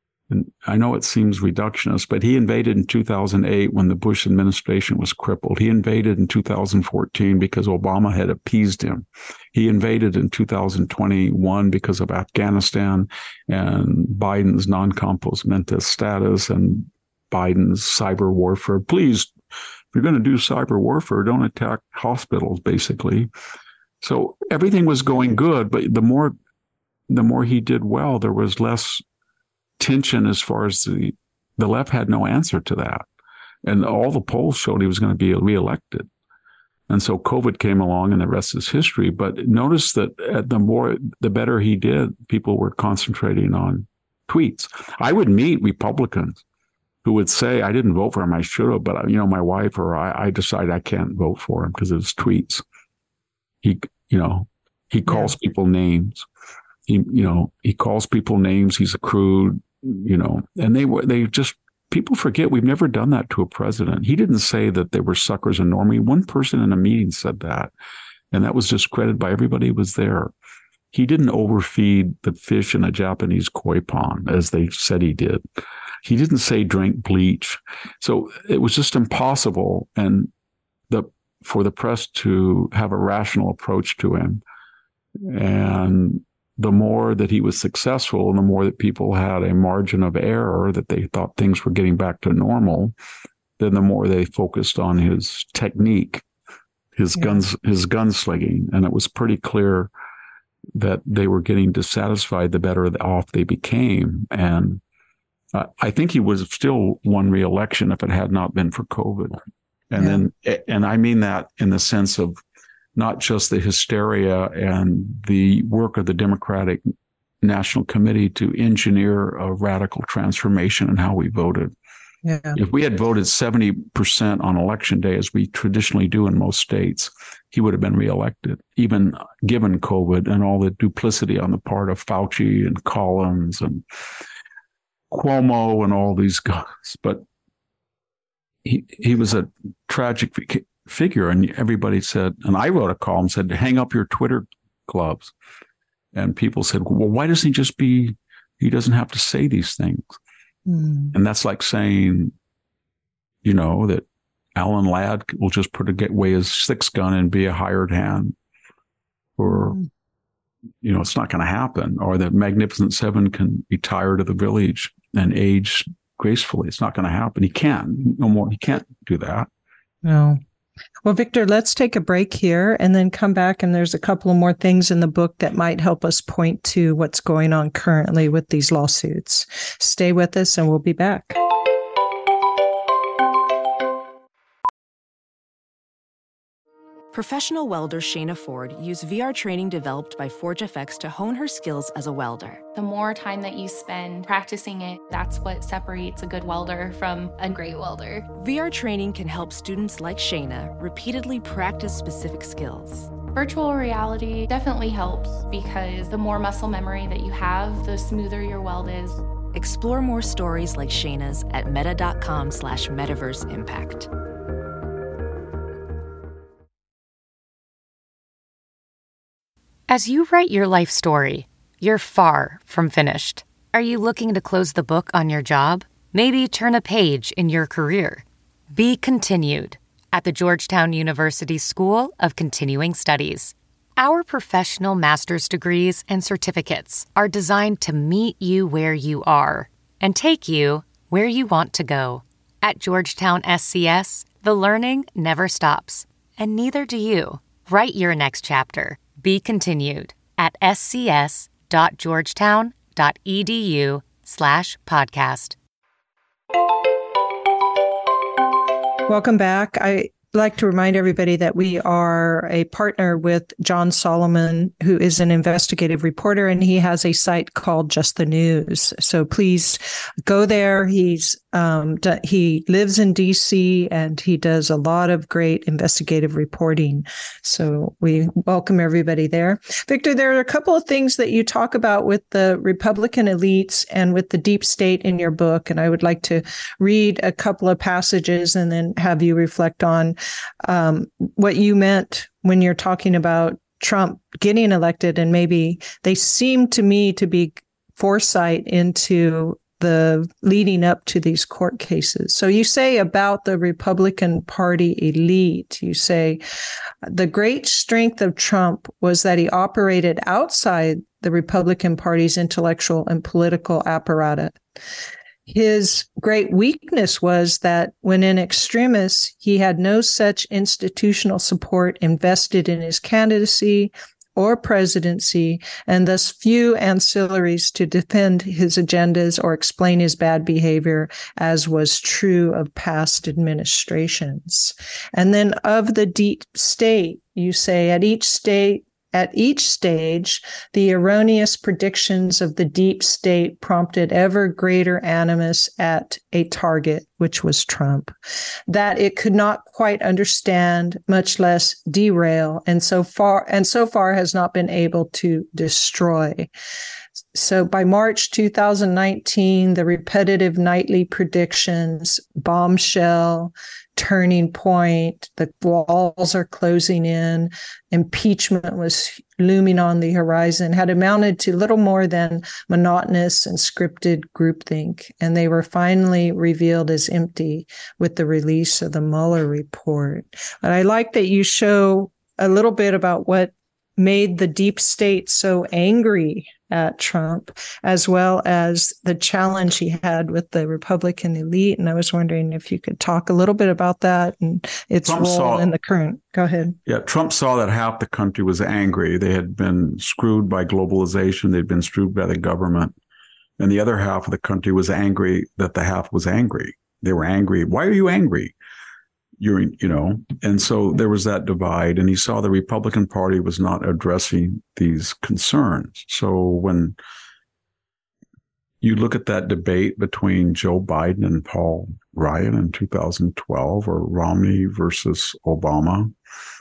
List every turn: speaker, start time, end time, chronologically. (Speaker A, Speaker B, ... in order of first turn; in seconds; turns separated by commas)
Speaker A: 0.3-19.3, Speaker A: 19.9-23.3, Speaker A: 24.0-26.4, Speaker A: 27.1-29.0, Speaker A: 29.8-33.1, Speaker A: 33.6-36.1, Speaker A: 36.9-46.4, Speaker A: 47.0-52.6, Speaker A: 53.6-56.3, Speaker A: 56.9-67.7, Speaker A: 68.3-70.3, Speaker A: 70.9-75.4, Speaker A: 76.0-80.3, Speaker A: 80.9-84.4, Speaker A: 85.2-92.9, Speaker A: 93.6-96.2, Speaker A: 97.0-99.9, Speaker A: 100.8-104.8, Speaker A: 105.5-109.4, Speaker A: 109.9-112.4, Speaker B: 110.0-110.2, Speaker A: 113.0-116.8, Speaker A: 117.4-121.7, Speaker B: 122.2-122.6, Speaker A: 122.5-133.8, Speaker A: 135.1-137.2, Speaker A: 138.6-145.3, Speaker A: 146.1-150.2, Speaker B: 150.7-151.1, Speaker A: 151.1-152.3, Speaker A: 153.4-158.3, Speaker A: 159.4-159.8, Speaker A: 160.8-169.5, Speaker B: 170.0-170.4, Speaker B: 171.0-181.4, Speaker C: 187.1-192.6, Speaker D: 192.8-198.3, Speaker C: 198.3-203.1, Speaker D: 203.3-209.2, Speaker C: 209.5-214.1, Speaker E: 219.9-255.6, Speaker B: 259.1-306.4, Speaker B: 307.1-314.6, Speaker B: 315.5-348.1, Speaker B: 348.7-356.5, Speaker B: 357.3-396.8, Speaker A: 395.1-395.7, Speaker A: 396.9-403.0, Speaker A: 403.6-408.5, Speaker A: 409.4-417.0, Speaker A: 418.8-426.1